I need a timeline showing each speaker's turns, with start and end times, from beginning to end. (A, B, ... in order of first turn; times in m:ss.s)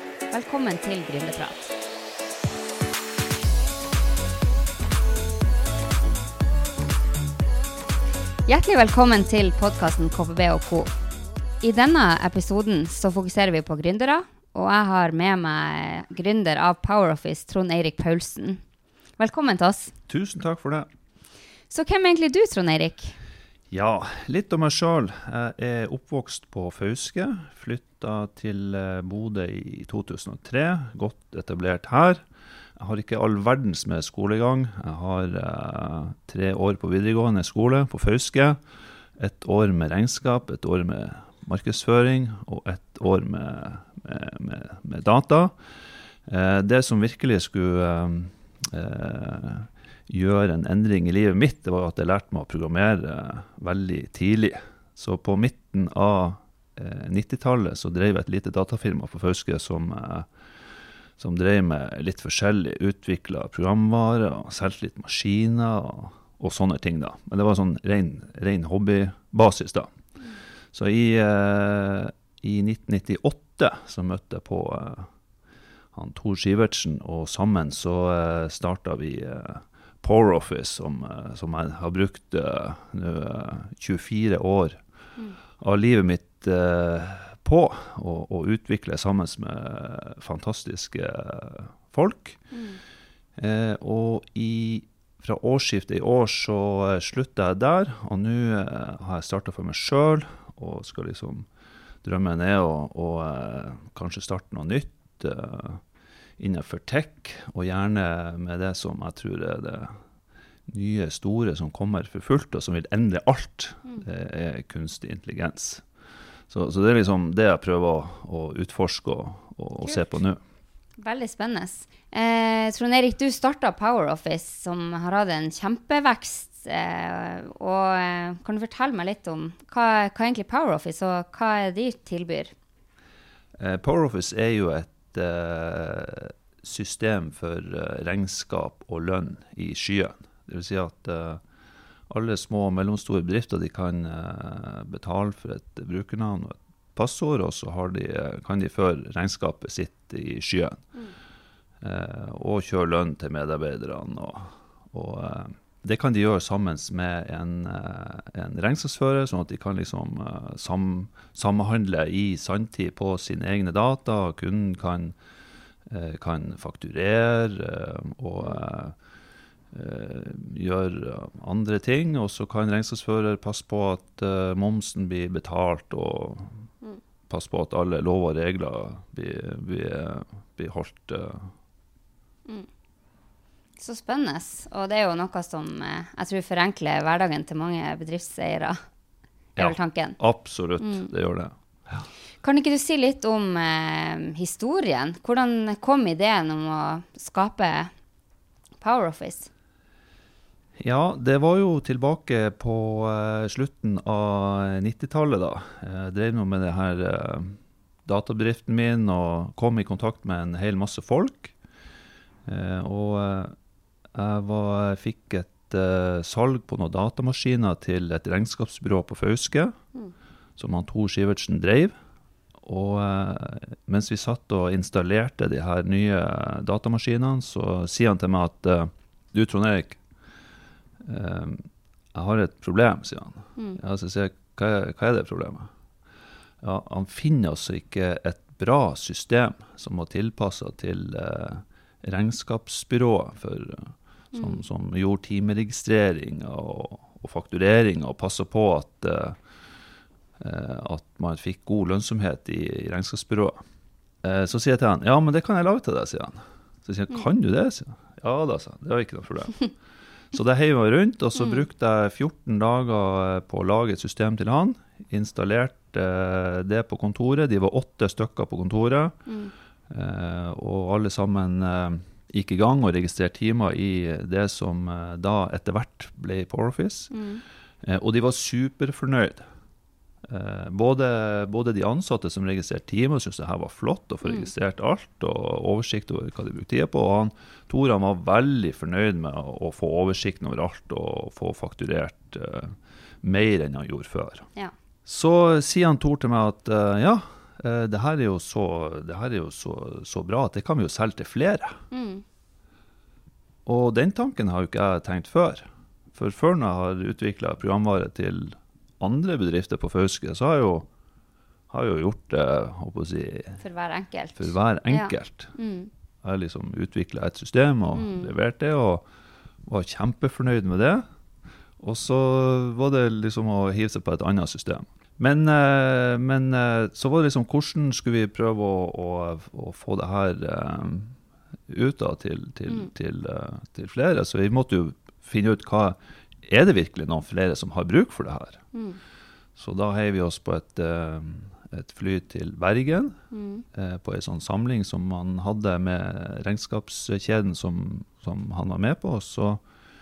0:00.3-0:01.7 A
0:08.5-0:10.9 A
0:11.6-0:18.6 A
0:19.2-0:19.9 A
0:20.1-0:20.9 B
0:21.7-0:23.1 A
0:23.7-0:32.2 B
0:32.8-0:38.6 B
0:39.2-0:45.5 B
0:46.2-1:00.3 B
1:01.2-1:09.9 B
1:10.7-1:15.1 B
1:15.9-1:24.8 B
1:25.6-1:32.4 B
1:32.5-1:32.8 A
1:33.4-1:41.5 B
1:42.0-1:45.8 B
1:46.4-1:50.0 B
1:50.7-1:55.8 B
1:56.5-2:00.4 B
1:59.8-2:00.1 A
2:01.0-2:12.5 A
2:13.6-2:21.4 B
2:22.1-2:30.8 B
2:31.8-2:45.2 B
2:45.9-2:49.0 B
2:49.7-2:56.6 B
2:57.3-3:01.5 B
3:03.8-3:08.8 A
3:09.6-3:12.1 B
3:09.6-3:10.2 A
3:10.8-3:11.1 A
3:12.4-3:17.9 A
3:18.8-3:19.5 A
3:20.8-3:31.5 B
3:32.4-3:33.6 B
3:34.1-3:39.8 B
3:40.6-3:41.9 B
3:42.6-3:50.0 B
3:51.0-3:55.7 B
3:56.6-4:09.4 B
4:04.3-4:04.6 A
4:10.4-4:13.6 B
4:14.2-4:19.7 B
4:20.3-4:29.2 B
4:29.9-4:37.1 B
4:37.1-4:37.4 A
4:37.8-4:39.4 B
4:40.2-4:54.5 B
4:44.2-4:44.5 A
4:55.1-5:01.8 B
5:01.9-5:02.2 A
5:03.7-5:10.9 B
5:11.7-5:13.6 B
5:13.6-5:15.9 A
5:14.4-5:15.5 B
5:16.2-5:19.0 B
5:17.9-5:18.3 A
5:19.6-5:21.0 B
5:21.8-5:31.2 B
5:31.7-5:38.6 B
5:38.7-5:39.0 A
5:39.6-5:43.2 B
5:43.3-5:43.6 A
5:43.7-5:49.6 B